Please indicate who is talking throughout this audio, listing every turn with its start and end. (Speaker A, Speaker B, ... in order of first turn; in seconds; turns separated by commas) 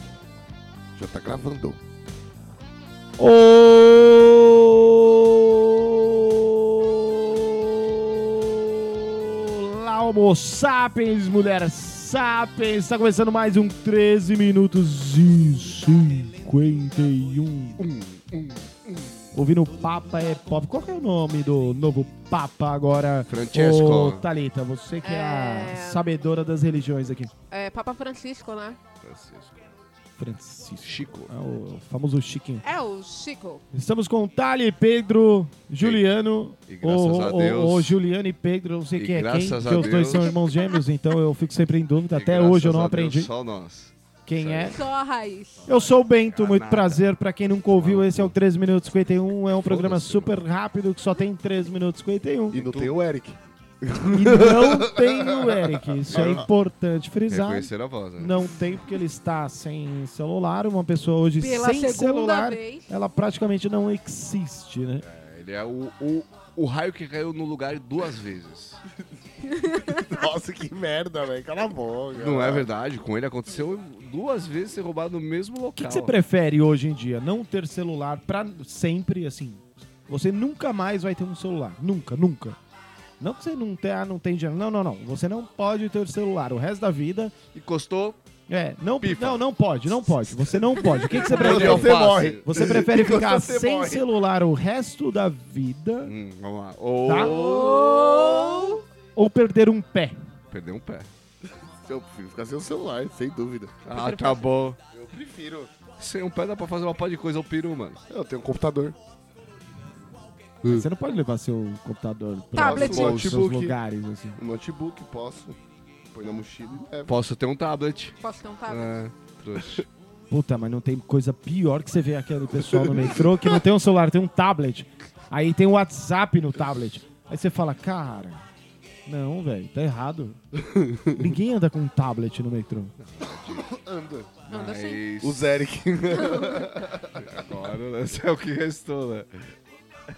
Speaker A: 0.9-1.8, Speaker B: 3.2-17.9, Speaker C: 17.8-18.9, Speaker B: 19.3-27.3, Speaker C: 23.3-24.3, Speaker D: 25.0-26.1, Speaker D: 27.5-28.8, Speaker C: 29.0-29.7, Speaker B: 30.2-32.7, Speaker C: 30.8-31.3, Speaker D: 32.6-33.6, Speaker B: 33.7-43.3, Speaker C: 35.8-36.0, Speaker C: 36.7-38.0, Speaker C: 38.9-40.3, Speaker D: 40.2-40.8, Speaker C: 42.1-44.9, Speaker B: 44.3-44.8, Speaker D: 44.6-45.6, Speaker B: 45.7-52.6, Speaker C: 45.7-47.1, Speaker C: 47.7-48.3, Speaker C: 49.6-50.4, Speaker A: 52.5-56.5, Speaker C: 52.5-53.0, Speaker B: 54.1-65.0, Speaker C: 56.1-56.5, Speaker C: 57.3-58.4, Speaker D: 61.4-62.9, Speaker C: 65.0-68.8, Speaker D: 69.5-70.2, Speaker A: 69.8-72.7, Speaker C: 72.2-76.1, Speaker B: 75.7-82.6, Speaker B: 83.2-87.3, Speaker C: 87.5-88.2, Speaker B: 88.5-96.1, Speaker C: 89.0-89.5, Speaker C: 90.8-92.4, Speaker A: 91.1-94.0, Speaker C: 96.0-98.1, Speaker B: 97.0-97.5, Speaker D: 97.3-98.8, Speaker A: 97.9-98.8, Speaker B: 99.1-100.2, Speaker C: 100.5-101.1, Speaker A: 101.7-103.8, Speaker C: 103.8-104.8, Speaker D: 103.9-104.6, Speaker A: 104.9-105.7, Speaker C: 106.0-108.0, Speaker A: 108.1-109.0, Speaker A: 110.6-110.9, Speaker B: 110.6-114.4, Speaker D: 112.5-113.0, Speaker A: 112.6-113.8, Speaker C: 112.7-113.4, Speaker A: 114.4-115.6, Speaker A: 116.1-117.1, Speaker C: 117.0-119.9, Speaker D: 118.2-119.0, Speaker B: 120.3-128.4, Speaker A: 122.5-123.6, Speaker B: 129.1-130.4, Speaker A: 130.7-131.1, Speaker B: 131.1-132.9, Speaker C: 133.0-133.7, Speaker A: 133.4-134.3, Speaker C: 134.4-139.5, Speaker D: 134.5-135.1, Speaker A: 135.2-137.3, Speaker D: 136.2-136.5